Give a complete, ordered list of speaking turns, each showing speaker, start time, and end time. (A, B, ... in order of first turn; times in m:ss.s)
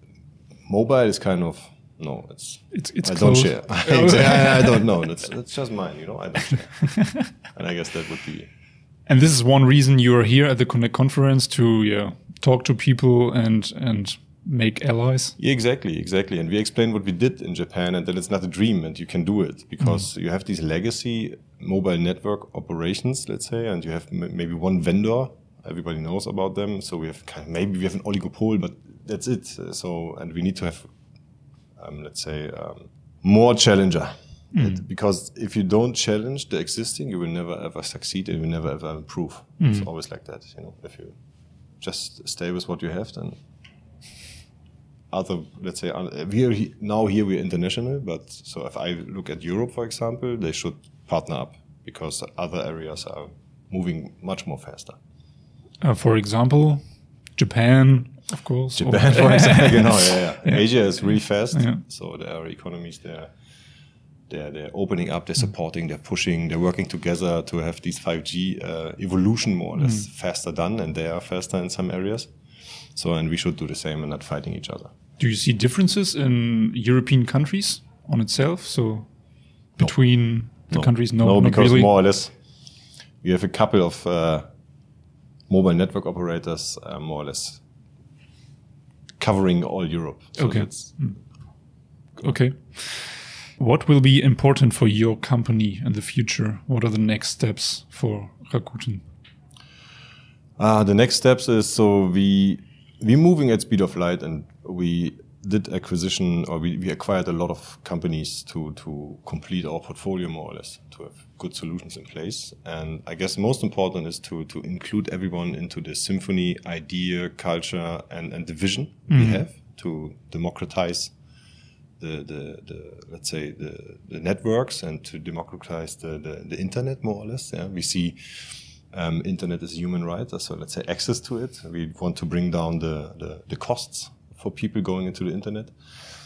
0:00.7-0:08.5 A
0:02.7-0:04.9 B
0:09.1-0:15.4 B
0:15.4-0:30.9 A
0:19.8-0:20.0 B
0:31.8-0:41.2 A
0:34.5-0:34.8 B
0:39.6-0:39.9 B
0:41.8-0:43.4 A
0:45.1-0:55.0 A
0:55.8-0:56.8 B
0:57.4-1:01.8 B
0:58.8-1:03.3 A
1:04.3-1:12.3 A
1:09.8-1:10.0 B
1:12.9-1:14.9 A
1:15.2-1:19.1 B
1:19.8-1:22.0 B
1:19.8-1:22.4 A
1:23.2-1:24.5 A
1:25.5-1:27.6 A
1:29.2-1:31.0 A
1:30.4-1:31.2 B
1:32.2-1:39.0 B
1:40.6-2:01.2 A
1:59.1-1:59.4 B
2:02.0-2:15.9 A